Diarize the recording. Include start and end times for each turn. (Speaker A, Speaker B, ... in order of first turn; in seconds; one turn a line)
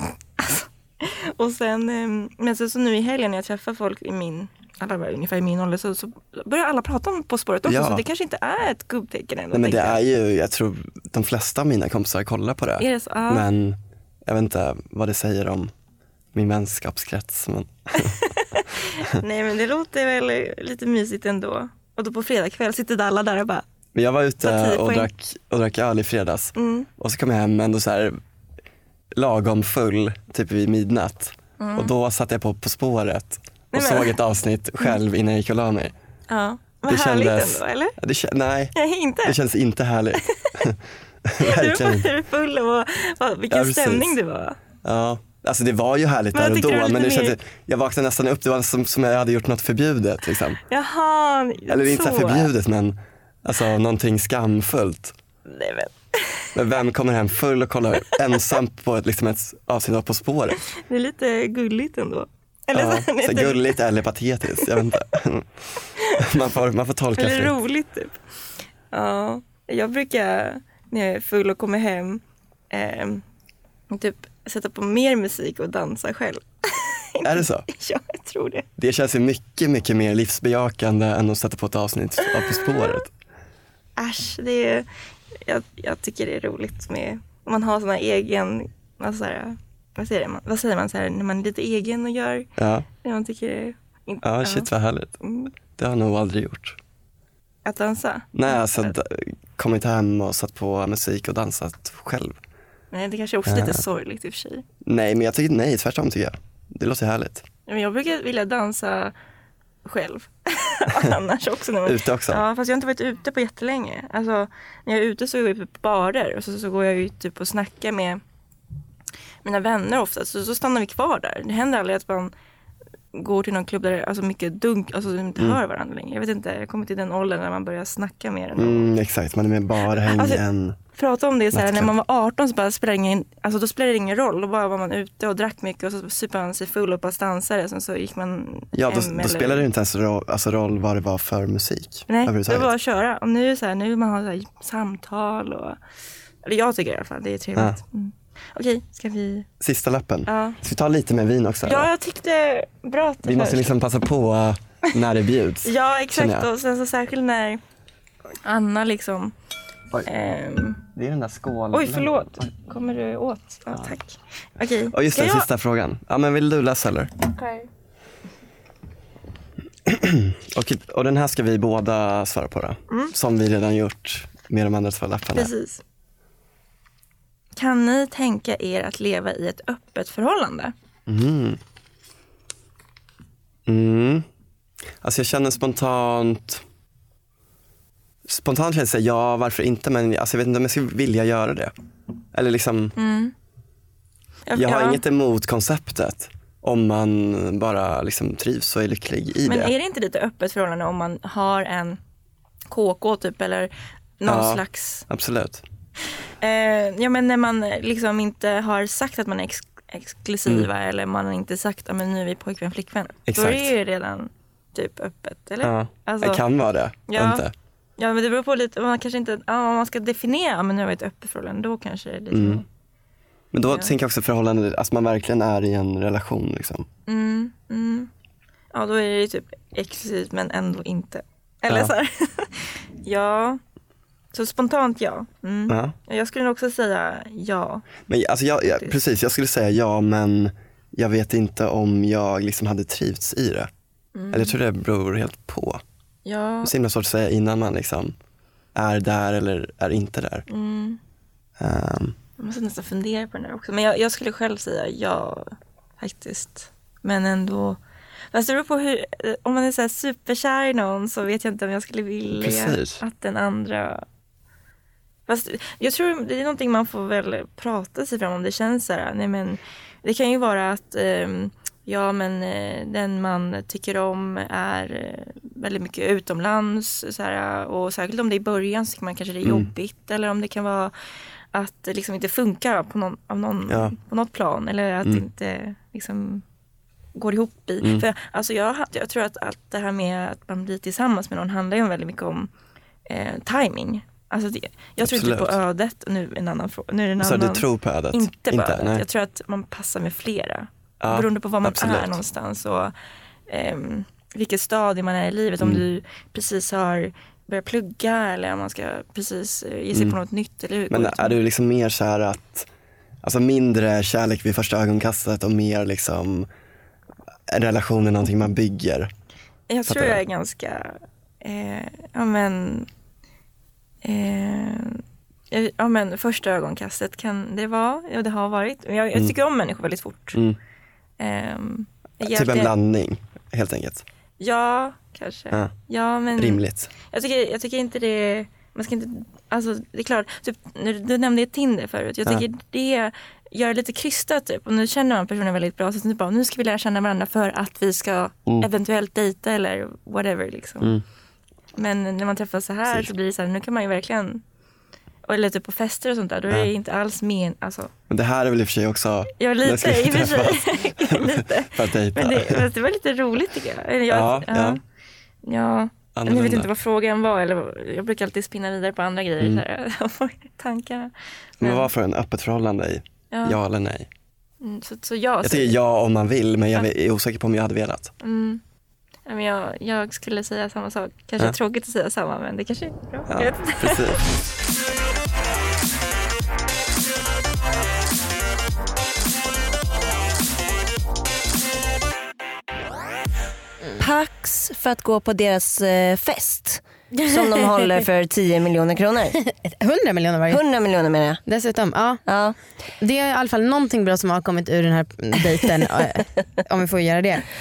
Speaker A: 0.4-10.0
Speaker B: 7.7-8.0
Speaker B: 9.5-15.7
Speaker A: 12.8-13.4
Speaker B: 16.3-18.1
Speaker A: 18.0-23.6
Speaker B: 23.9-28.2
Speaker A: 24.4-25.1
Speaker A: 26.6-26.9
Speaker B: 29.1-35.9
Speaker A: 31.6-31.9
Speaker A: 33.7-34.1
Speaker A: 36.3-37.9
Speaker B: 36.9-42.1
Speaker A: 38.7-39.4
Speaker A: 41.4-44.6
Speaker B: 43.5-44.1
Speaker B: 44.8-50.6
Speaker A: 46.3-47.4
Speaker A: 50.7-52.5
Speaker B: 51.7-55.1
Speaker A: 55.5-56.5
Speaker B: 56.5-60.6
Speaker A: 60.7-63.8
Speaker B: 62.7-65.5
Speaker B: 66.2-67.5
Speaker A: 67.2-68.2
Speaker A: 68.9-73.2
Speaker A: 73.9-78.7
Speaker B: 77.2-77.7
Speaker B: 78.8-83.1
Speaker A: 82.2-83.0
Speaker A: 84.0-84.9
Speaker A: 85.4-92.5
Speaker B: 92.6-92.9
Speaker A: 93.0-94.7
Speaker B: 94.2-95.1
Speaker A: 95.2-95.5
Speaker B: 95.8-96.8
Speaker A: 97.6-98.9
Speaker B: 98.3-102.3
Speaker A: 102.9-104.6
Speaker B: 103.5-103.8
Speaker B: 104.8-107.4
Speaker A: 107.7-109.1
Speaker A: 109.8-118.2
Speaker B: 111.8-112.4
Speaker A: 119.4-122.3
Speaker A: 123.1-128.9
Speaker B: 128.6-130.8
Speaker A: 130.0-130.4
Speaker A: 130.9-139.7
Speaker B: 131.5-131.9
Speaker B: 138.7-142.7
Speaker A: 142.1-145.8
Speaker A: 146.4-149.5
Speaker B: 149.6-151.9
Speaker A: 150.3-150.6
Speaker A: 151.7-153.7
Speaker B: 153.2-156.5
Speaker A: 155.6-157.6
Speaker A: 158.4-159.3
Speaker A: 160.1-160.8
Speaker B: 160.9-162.4
Speaker A: 161.7-165.5
Speaker B: 164.9-167.1
Speaker A: 167.3-167.7
Speaker B: 169.8-175.5
Speaker A: 175.3-175.8
Speaker A: 177.6-180.7
Speaker B: 181.1-181.6
Speaker B: 183.7-184.2
Speaker B: 185.0-186.6
Speaker B: 188.2-191.7
Speaker B: 192.3-192.9
Speaker A: 192.9-193.3
Speaker A: 194.5-195.0
Speaker B: 194.5-199.7
Speaker A: 199.4-202.0
Speaker A: 202.7-205.0
Speaker B: 204.2-205.6
Speaker A: 206.4-216.4
Speaker B: 213.3-213.7
Speaker B: 215.6-217.5
Speaker A: 217.1-217.4
Speaker A: 218.0-222.6
Speaker B: 222.3-222.6
Speaker B: 223.5-226.9
Speaker A: 227.1-228.1
Speaker A: 228.7-233.6
Speaker B: 231.7-231.9
Speaker A: 234.3-237.8
Speaker B: 235.7-235.9
Speaker B: 238.1-243.7
Speaker A: 238.7-239.0
Speaker A: 244.1-244.6
Speaker B: 244.3-245.8
Speaker A: 246.2-246.7
Speaker B: 246.6-248.1
Speaker B: 248.7-250.5
Speaker A: 250.5-251.0
Speaker B: 251.6-252.2
Speaker A: 252.4-257.8
Speaker A: 258.3-264.0
Speaker B: 262.3-263.0
Speaker A: 265.3-280.9
Speaker B: 279.4-279.7
Speaker A: 281.5-286.4
Speaker B: 283.7-283.9
Speaker A: 287.1-292.5
Speaker B: 287.8-288.1
Speaker A: 293.1-302.9
Speaker B: 295.0-295.6
Speaker B: 297.2-299.0
Speaker B: 301.0-302.2
Speaker A: 303.5-311.4
Speaker B: 309.9-310.2
Speaker B: 310.9-312.7
Speaker B: 313.2-316.5
Speaker B: 317.5-319.1
Speaker A: 319.7-322.9
Speaker B: 319.9-320.2
Speaker A: 324.0-330.4
Speaker B: 330.3-330.6
Speaker A: 331.2-332.7
Speaker B: 332.2-334.0
Speaker A: 334.4-350.9
Speaker B: 336.3-336.9
Speaker A: 351.8-354.4
Speaker A: 355.3-357.9
Speaker B: 358.1-362.7
Speaker A: 359.4-364.8
Speaker B: 364.1-364.8
Speaker A: 365.4-371.9
Speaker B: 366.1-366.7
Speaker B: 371.6-374.1
Speaker A: 373.3-373.6
Speaker A: 374.6-375.8
Speaker B: 375.4-378.1
Speaker A: 378.2-378.6
Speaker A: 379.3-384.2
Speaker B: 383.3-384.2
Speaker C: 394.0-399.4
Speaker D: 399.4-400.6
Speaker C: 400.5-401.4
Speaker D: 401.4-402.2
Speaker C: 402.2-402.6
Speaker D: 403.0-407.5